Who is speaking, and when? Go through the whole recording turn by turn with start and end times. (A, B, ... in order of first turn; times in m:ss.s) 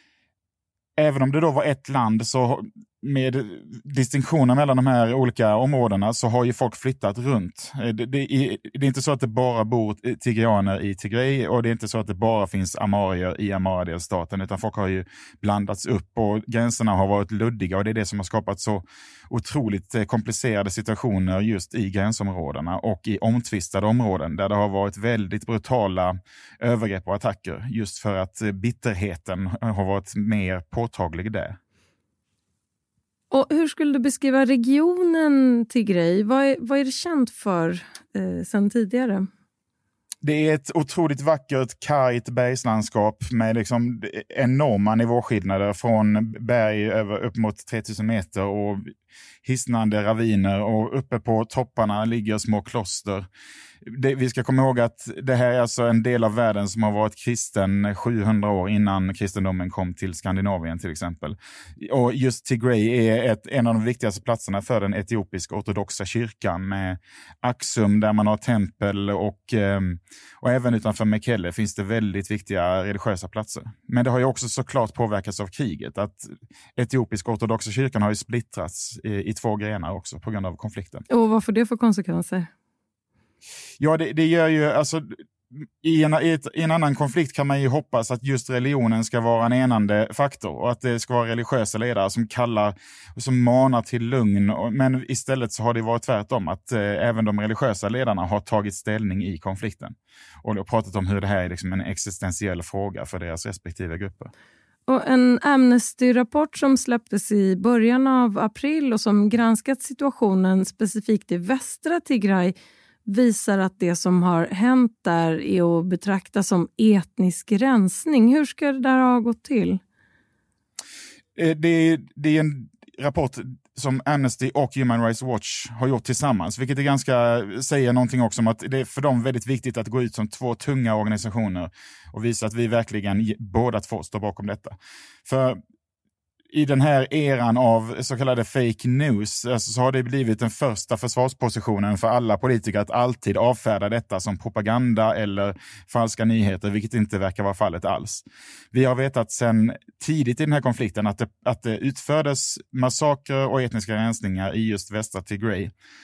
0:01.0-0:31.6 A
0:33.3-0:39.3 B
0:40.2-0:48.8 A
0:49.4-0:53.3 A
0:53.8-1:21.0 A
1:21.1-1:22.5 B
1:23.8-1:44.3 A
1:44.9-1:52.5 B
1:53.0-1:59.8 B
2:01.4-2:15.6 A
2:16.5-2:35.7 A